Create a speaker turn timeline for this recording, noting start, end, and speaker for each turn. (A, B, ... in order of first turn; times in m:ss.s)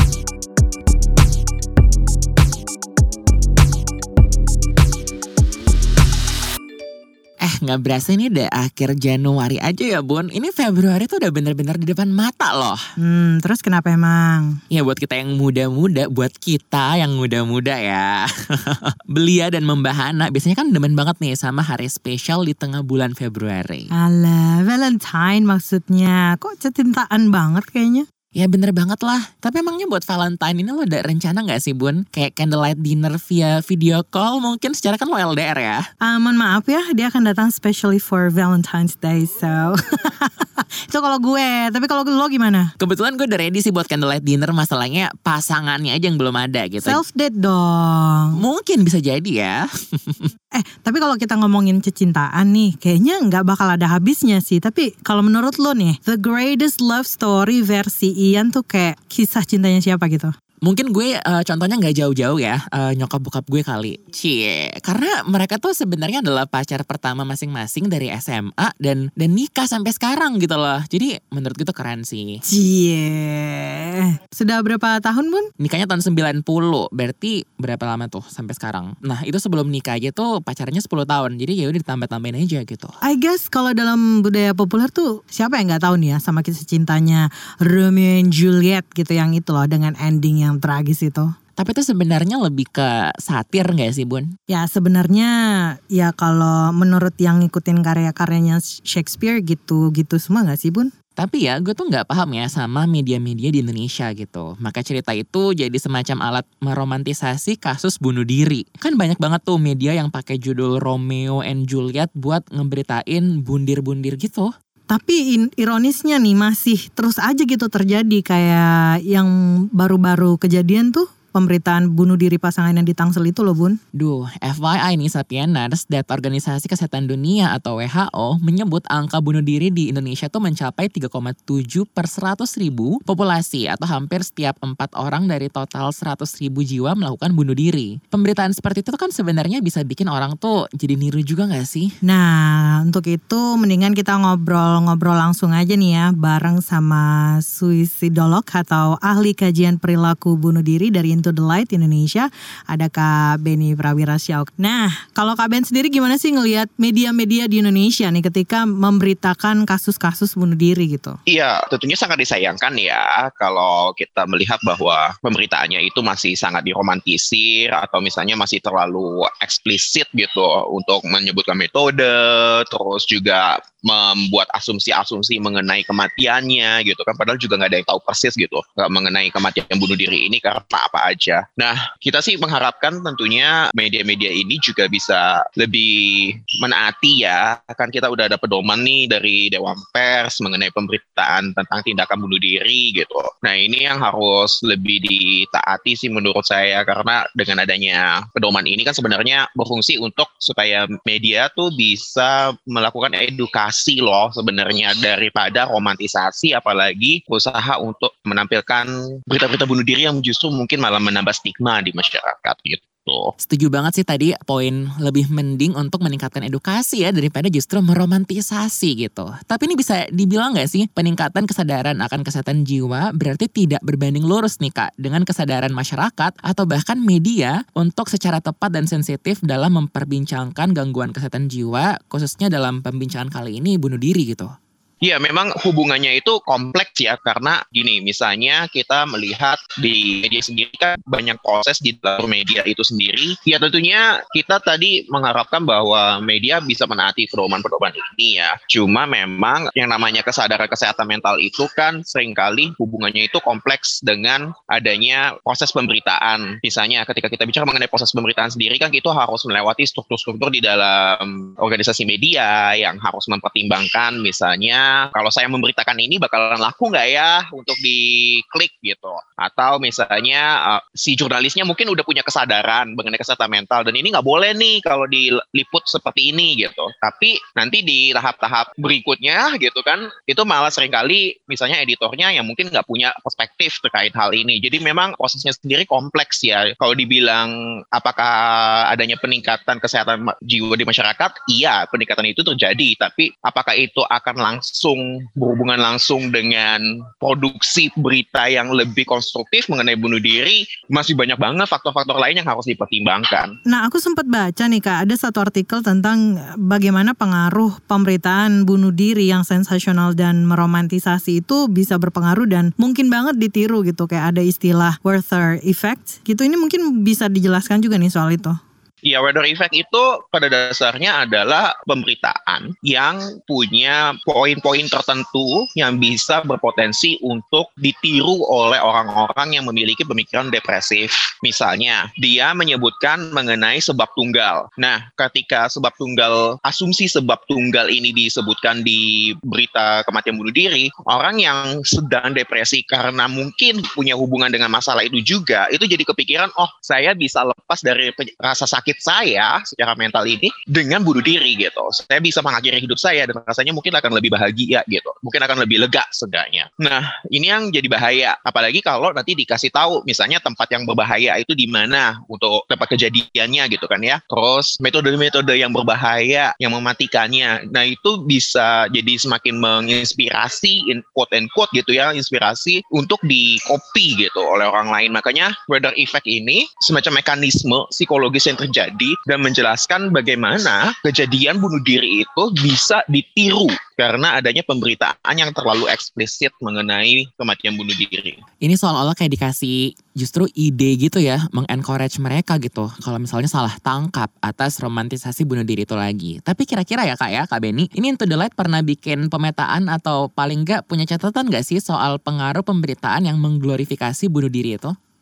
0:07.4-0:12.8 A
0:13.0-0:14.6 B
0:14.7-0:23.9 A
0:24.0-0:28.1 B
0:28.4-0:35.9 A
0:36.0-0:42.7 B
0:42.8-0:47.0 A
0:46.8-0:48.4 B
0:48.4-0:50.3 A
0:50.5-1:00.3 B
1:00.7-1:12.4 A
1:12.5-1:15.5 B
1:15.6-1:23.0 A
1:23.0-1:31.3 B
1:31.6-1:34.3 A
1:34.5-1:40.9 B
1:41.2-1:54.5 A
1:54.9-2:03.8 B
2:04.0-2:21.9 A
2:22.0-2:41.2 B
2:41.3-3:33.3 C
3:33.4-3:54.5 A
3:55.0-5:03.6 C
5:03.7-5:18.6 B
5:19.0-6:28.4 C
6:28.6-6:44.9 A